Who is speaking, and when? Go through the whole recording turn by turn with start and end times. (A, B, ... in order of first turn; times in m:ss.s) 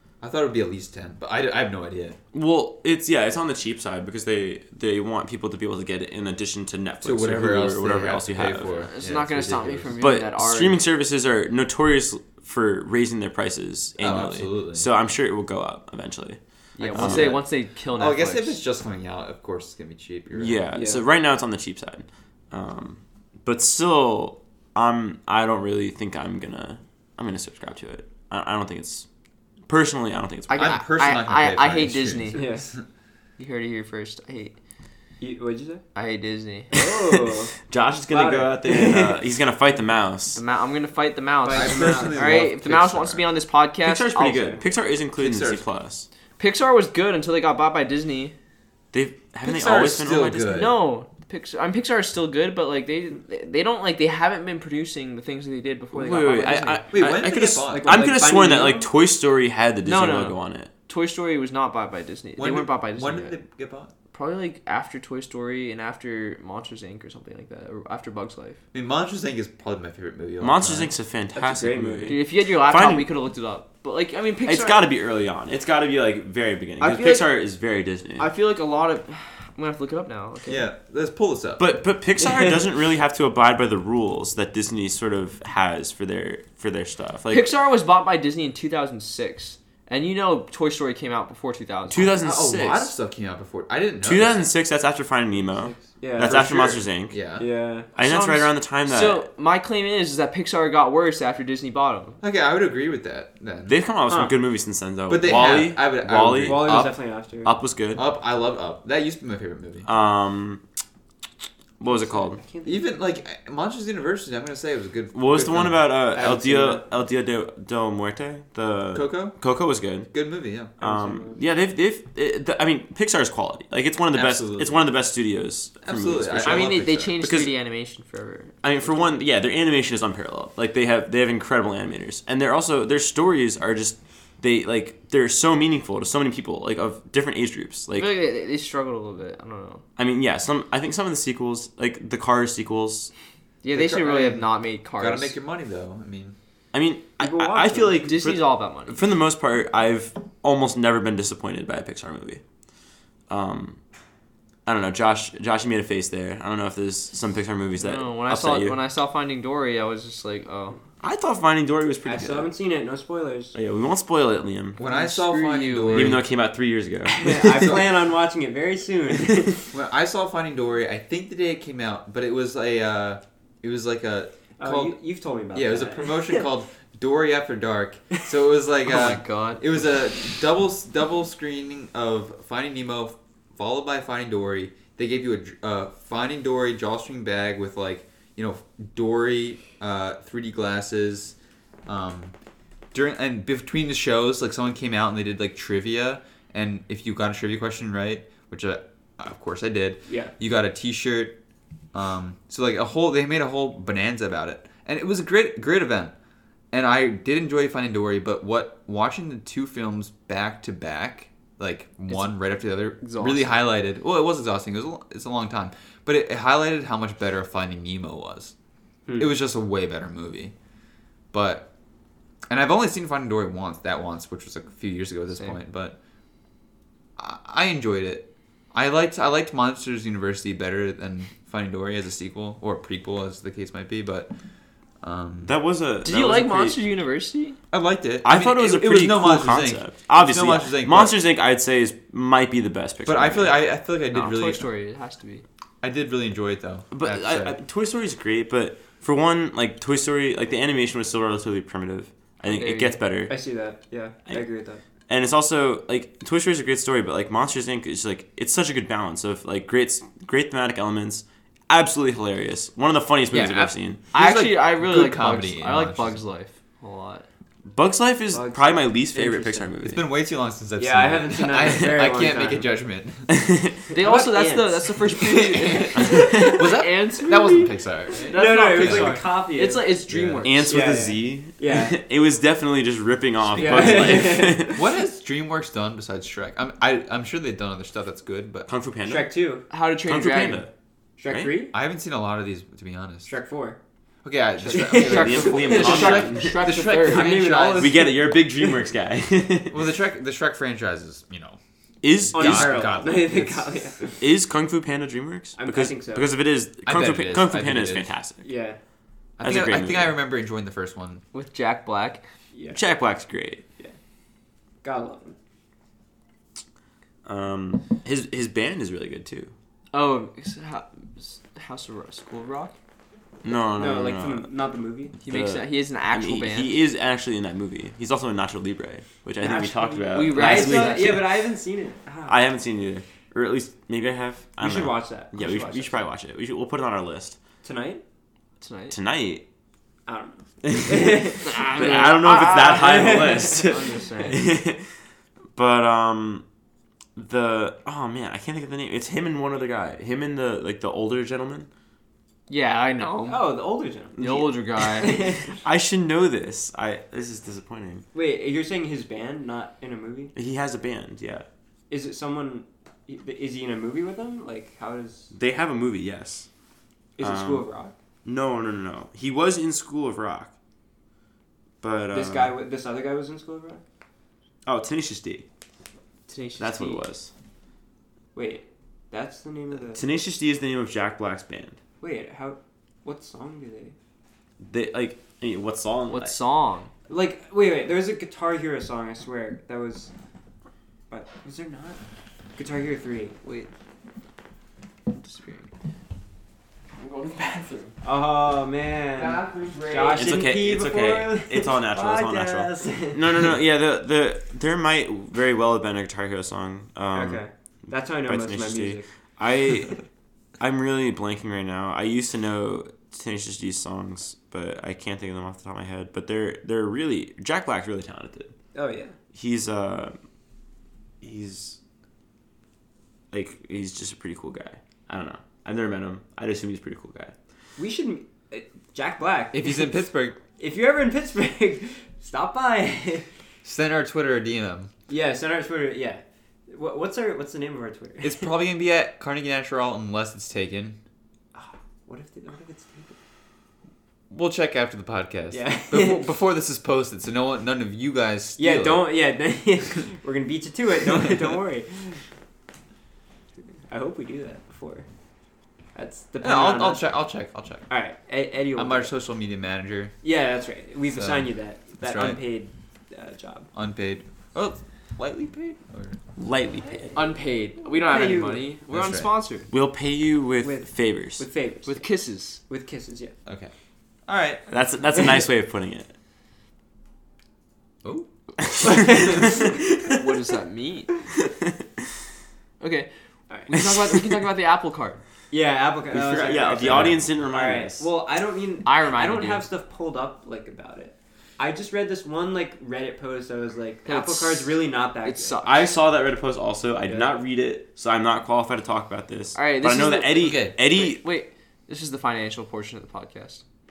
0:00.2-0:02.2 A
0:02.3-0:08.8 B
0:07.0-0:10.0 A
0:08.7-0:10.9 C
0:10.0-0:17.4 B
0:14.0-0:14.9 A
0:16.8-0:18.6 C
0:16.9-0:20.6 A
0:20.3-0:29.0 B
0:20.7-0:21.0 D
0:29.7-0:30.7 B
0:30.5-0:32.4 C
0:30.5-0:32.8 A
0:32.3-0:32.6 D
0:33.4-0:34.5 C
0:35.2-0:35.8 D
0:35.9-0:36.7 C
0:36.7-0:37.5 D
0:37.1-0:40.4 B
0:38.1-0:39.2 D
0:40.3-0:44.6 C
0:41.4-0:42.4 D
0:41.5-0:43.2 A
0:43.8-0:46.1 B
0:45.2-0:45.6 A
0:46.4-0:48.3 C
0:48.9-0:50.6 B
0:49.4-0:50.7 A
0:50.5-0:56.8 C
0:55.9-1:00.7 B
0:56.9-0:58.1 A
0:57.6-0:58.9 D
0:59.8-1:03.4 C
1:02.4-1:03.9 A
1:04.1-1:08.6 C
1:08.7-1:10.9 A
1:10.4-1:13.1 B
1:11.3-1:12.2 D
1:12.1-1:14.8 C
1:14.4-1:18.3 B
1:16.8-1:17.3 C
1:18.2-1:20.7 C
1:20.5-1:21.7 A
1:21.6-1:27.5 B
1:22.2-1:22.5 D
1:27.3-1:32.2 C
1:31.9-1:32.9 B
1:32.2-1:34.5 A
1:34.0-1:37.2 B
1:35.4-1:36.8 D
1:37.1-1:37.4 A
1:37.4-1:37.9 D
1:37.9-1:39.2 B
1:38.0-1:42.2 C
1:42.2-1:43.8 A
1:43.6-1:48.0 B
1:44.1-1:44.3 D
1:45.1-1:46.9 A
1:46.4-1:47.5 D
1:47.9-1:49.9 A
1:49.8-1:50.6 B
1:51.8-1:52.4 B
1:51.8-1:52.8 D
1:52.6-1:56.0 A
1:55.1-2:00.1 B
1:56.1-1:56.8 D
1:58.9-1:59.4 A
2:00.1-2:00.7 A
2:00.8-2:07.5 B
2:00.8-2:01.4 D
2:04.1-2:04.8 A
2:05.8-2:07.2 A
2:06.4-2:09.1 C
2:08.6-2:18.2 B
2:17.9-2:19.8 C
2:20.0-2:23.1 B
2:23.6-2:25.3 C
2:23.7-2:26.4 A
2:26.7-2:32.4 B
2:27.2-2:28.1 D
2:28.0-2:29.0 C
2:33.3-2:33.8 B
2:34.6-2:38.8 B
2:37.8-2:40.8 C
2:41.0-2:42.5 B
2:42.0-2:43.5 D
2:43.5-2:44.8 B
2:44.8-2:46.2 A
2:44.8-2:46.2 C
2:45.9-2:47.8 B
2:47.1-2:49.7 D
2:49.7-2:55.0 A
2:54.6-2:56.4 D
2:55.5-3:12.3 A
2:58.8-2:59.6 C
3:12.9-3:21.4 A
3:21.9-3:26.1 A
3:26.7-3:38.5 A
3:33.0-3:33.6 C
3:39.2-3:40.5 A
3:41.3-3:41.7 A
3:42.5-3:46.0 A
3:47.2-3:54.3 A
3:55.0-3:55.5 A
3:55.4-3:56.8 B
3:56.0-3:57.6 C
3:57.7-4:01.2 A
3:58.2-4:03.6 B
4:03.0-4:04.6 A
4:04.1-4:05.4 C
4:05.8-4:07.6 A
4:06.9-4:13.4 B
4:12.4-4:13.0 C
4:13.3-4:14.8 D
4:15.1-4:24.0 B
4:23.3-4:23.7 D
4:24.1-4:27.2 C
4:24.1-4:26.2 A
4:27.7-4:30.1 B
4:28.3-4:29.7 D
4:29.8-4:33.3 A
4:30.8-4:32.7 D
4:31.5-4:31.8 B
4:33.3-4:33.8 B
4:33.9-4:40.7 C
4:33.9-4:35.5 D
4:36.0-4:39.2 A
4:36.0-4:36.5 B
4:38.3-4:39.9 D
4:40.1-4:40.5 A
4:40.4-4:44.8 B
4:40.6-4:42.0 D
4:43.5-4:44.7 D
4:43.7-4:48.7 A
4:48.7-4:49.3 B
4:49.1-4:49.6 D
4:49.7-4:50.7 C
4:50.0-4:50.7 B
4:51.2-4:51.7 D
4:51.3-4:51.5 B
4:51.7-4:53.3 A
4:53.2-4:53.8 D
4:54.2-4:58.1 A
4:54.6-4:56.3 D
4:54.8-4:56.6 B
4:55.7-4:57.3 C
4:57.0-4:58.8 D
4:57.7-4:59.9 B
4:59.7-5:01.6 A
5:02.0-5:02.9 B
5:02.3-5:03.7 A
5:02.3-5:04.2 D
5:04.2-5:08.4 B
5:05.6-5:06.3 D
5:06.8-5:08.1 A
5:08.4-5:08.8 D
5:09.4-5:11.2 A
5:09.4-5:10.2 B
5:11.3-5:12.2 C
5:12.5-5:12.8 D
5:12.7-5:13.6 B
5:14.8-5:15.4 D
5:17.2-5:19.5 B
5:19.9-5:22.7 C
5:23.4-5:24.5 B
5:23.7-5:25.1 D
5:25.2-5:31.4 B
5:25.2-5:26.8 C
5:29.4-5:32.4 D
5:30.1-5:31.2 C
5:32.2-5:37.4 B
5:34.6-5:36.0 D
5:37.6-5:38.0 D
5:38.6-5:38.9 C
5:38.9-5:39.4 B
5:40.0-5:42.0 D
5:40.6-5:44.8 B
5:41.4-5:44.4 C
5:42.6-5:44.3 D
5:45.5-5:46.4 B
5:47.2-5:51.7 B
5:52.5-5:53.5 C
5:53.2-5:54.4 D
5:54.2-5:55.2 C
5:54.2-5:58.0 B
5:55.0-5:55.6 D
5:58.1-6:00.3 D
6:00.3-6:01.4 B
6:01.9-6:05.3 D
6:05.3-6:06.5 B
6:07.2-6:07.9 D
6:07.2-6:07.7 B
6:08.2-6:10.5 B
6:11.8-6:12.5 B
6:12.1-6:13.8 D
6:14.6-6:15.4 B
6:16.3-6:17.0 C
6:16.6-6:17.3 B
6:18.3-6:20.0 D
6:19.9-6:21.8 B
6:22.0-6:23.9 D
6:24.6-6:26.4 B
6:26.1-6:26.9 C
6:27.1-6:30.1 D
6:31.1-6:32.0 D
6:32.6-6:33.4 D
6:33.4-6:33.7 C
6:35.1-6:35.7 C
6:37.0-6:37.9 C
6:38.0-6:43.5 D
6:39.2-6:40.3 C
6:40.1-6:47.4 B
6:47.1-6:49.1 D
6:48.2-6:50.0 B
6:50.6-6:58.5 B
6:58.7-6:59.1 D
6:59.3-7:00.1 B
7:01.2-7:01.8 B
7:03.3-7:07.3 B
7:07.8-7:09.9 D
7:09.5-7:10.4 A
7:10.6-7:13.2 D
7:13.6-7:14.9 A
7:15.1-7:18.5 D
7:18.2-7:21.0 A
7:21.5-7:23.2 D
7:24.3-7:29.0 A
7:25.5-7:26.2 D
7:28.6-7:32.2 D
7:33.9-7:35.0 D
7:35.9-7:37.0 D
7:36.4-7:37.9 A
7:37.9-7:39.1 D
7:38.7-7:40.1 A
7:40.2-7:43.7 D
7:41.1-7:42.4 A
7:43.7-7:46.2 A
7:46.4-7:47.2 B
7:47.1-7:49.7 C
7:47.9-7:48.7 D
7:48.9-7:49.3 A
7:49.7-7:51.4 B
7:50.6-7:52.0 D
7:51.8-7:52.6 C
7:52.6-7:53.3 D
7:53.4-7:53.7 A
7:54.3-7:54.6 A
7:54.7-7:56.1 B
7:58.6-8:00.2 B
7:58.8-7:59.7 D
8:00.1-8:01.1 C
8:02.8-8:03.1 C
8:03.5-8:03.8 D
8:03.7-8:05.2 C
8:05.5-8:15.6 D
8:06.1-8:08.1 B
8:08.8-8:09.6 C
8:14.0-8:15.9 C
8:15.6-8:21.2 B
8:17.1-8:17.4 D
8:19.5-8:23.6 C
8:20.4-8:20.7 A